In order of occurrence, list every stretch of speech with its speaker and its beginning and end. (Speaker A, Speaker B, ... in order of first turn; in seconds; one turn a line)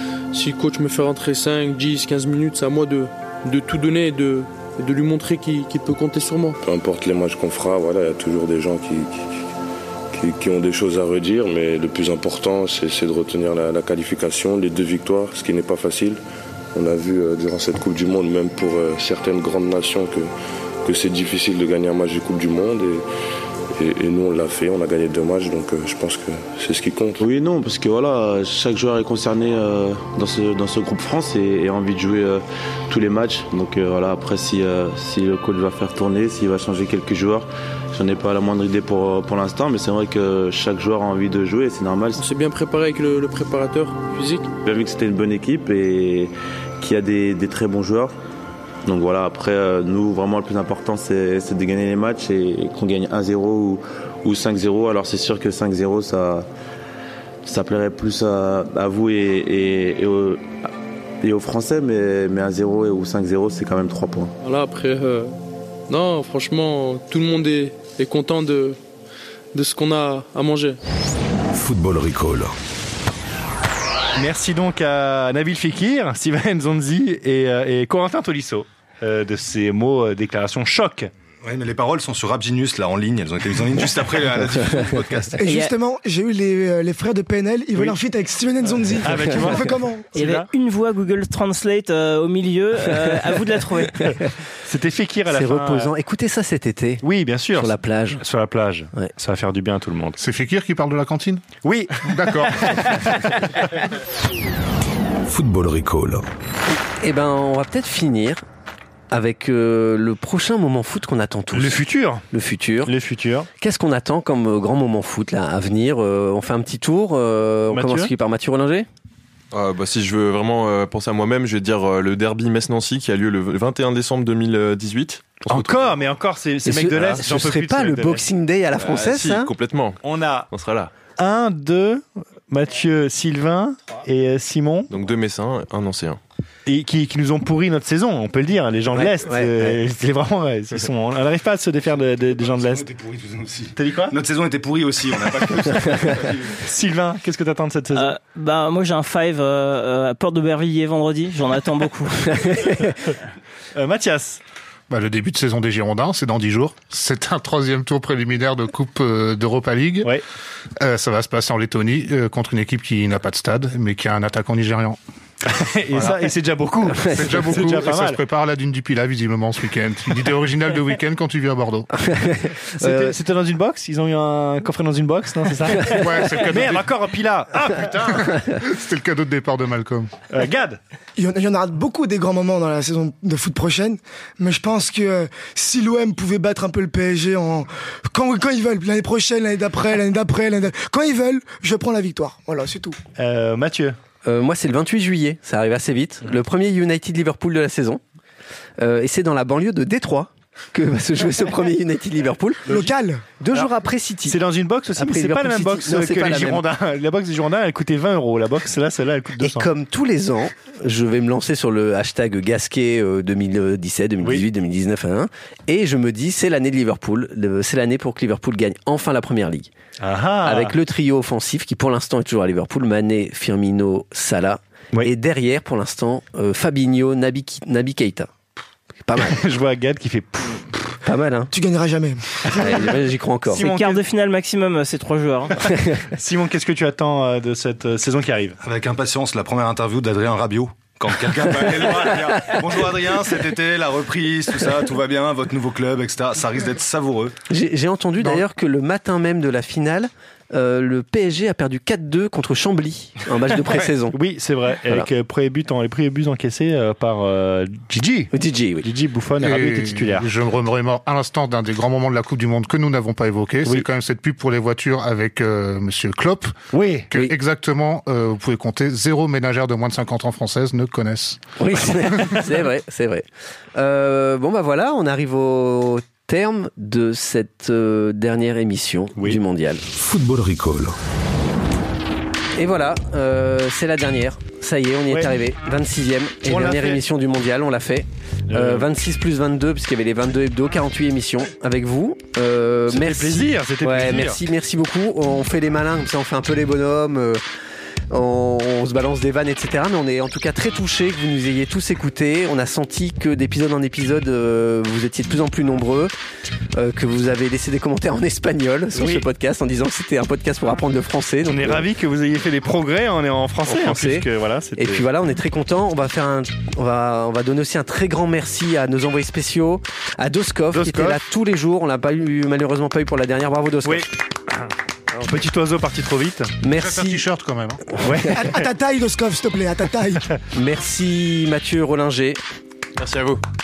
Speaker A: 0.3-6.6
Speaker B: 6.6-9.3
Speaker B: 10.1-16.2
Speaker B: 16.7-20.3
Speaker B: 20.8-23.1
Speaker B: 23.7-27.2
Speaker C: 27.2-42.2
Speaker A: 42.1-44.5
Speaker C: 44.6-48.1
Speaker C: 48.9-56.5
Speaker C: 57.4-60.4
Speaker C: 61.2-64.3
Speaker A: 64.4-65.3
Speaker A: 65.9-68.8
Speaker A: 69.5-70.8
Speaker D: 71.5-72.5
Speaker E: 74.2-81.1
Speaker F: 81.4-85.4
Speaker G: 85.3-90.1
Speaker H: 85.4-85.7
Speaker E: 89.0-90.5
Speaker H: 90.2-94.2
Speaker E: 94.6-95.9
Speaker I: 95.3-98.2
Speaker E: 97.0-100.2
Speaker J: 100.2-101.4
Speaker E: 101.6-103.7
Speaker J: 102.0-102.9
Speaker D: 105.2-106.2
Speaker I: 107.0-108.4
Speaker I: 109.1-112.9
Speaker E: 111.5-112.2
Speaker E: 112.8-113.5
Speaker I: 113.6-118.9
Speaker E: 117.7-118.1
Speaker K: 119.5-126.0
Speaker E: 125.5-128.2
Speaker I: 126.6-129.5
Speaker K: 128.8-130.9
Speaker E: 130.0-130.5
Speaker E: 131.2-134.9
Speaker K: 134.9-136.2
Speaker E: 136.7-142.9
Speaker I: 138.9-139.8
Speaker F: 142.1-146.5
Speaker E: 143.7-144.2
Speaker E: 146.6-148.1
Speaker H: 147.9-152.7
Speaker E: 153.7-154.4
Speaker J: 154.9-160.2
Speaker J: 160.8-165.0
Speaker E: 165.4-168.2
Speaker J: 167.0-171.9
Speaker I: 172.1-173.1
Speaker E: 172.7-178.3
Speaker J: 175.8-176.9
Speaker J: 177.7-180.1
Speaker E: 180.3-180.8
Speaker G: 181.2-193.0
Speaker E: 193.2-193.9
Speaker I: 194.2-198.0
Speaker I: 198.8-202.7
Speaker G: 202.7-203.2
Speaker I: 203.4-204.4
Speaker E: 204.2-209.7
Speaker I: 204.9-206.7
Speaker I: 209.4-219.7
Speaker E: 220.0-220.7
Speaker I: 220.4-228.3
Speaker I: 229.0-229.4
Speaker E: 229.2-230.9
Speaker I: 231.0-231.5
Speaker G: 231.5-232.9
Speaker I: 232.6-233.7
Speaker E: 233.5-234.0
Speaker H: 233.6-235.6
Speaker E: 236.1-238.6
Speaker F: 238.6-247.3
Speaker I: 247.5-254.2
Speaker E: 254.1-260.3
Speaker I: 258.3-258.9
Speaker J: 259.4-266.6
Speaker E: 266.7-267.1
Speaker J: 267.1-271.5
Speaker I: 271.6-279.8
Speaker D: 279.9-280.9
Speaker I: 282.5-297.4
Speaker E: 286.4-287.0
Speaker E: 288.5-288.9
Speaker E: 292.9-294.4
Speaker I: 298.1-306.1
Speaker I: 306.7-311.9
Speaker E: 308.9-309.2
Speaker E: 311.4-315.1
Speaker I: 313.6-324.1
Speaker E: 320.7-321.2
Speaker E: 323.8-326.5
Speaker I: 326.6-327.2
Speaker J: 326.8-327.8
Speaker E: 328.0-328.5
Speaker G: 328.3-330.3
Speaker I: 330.5-332.4
Speaker K: 333.0-333.4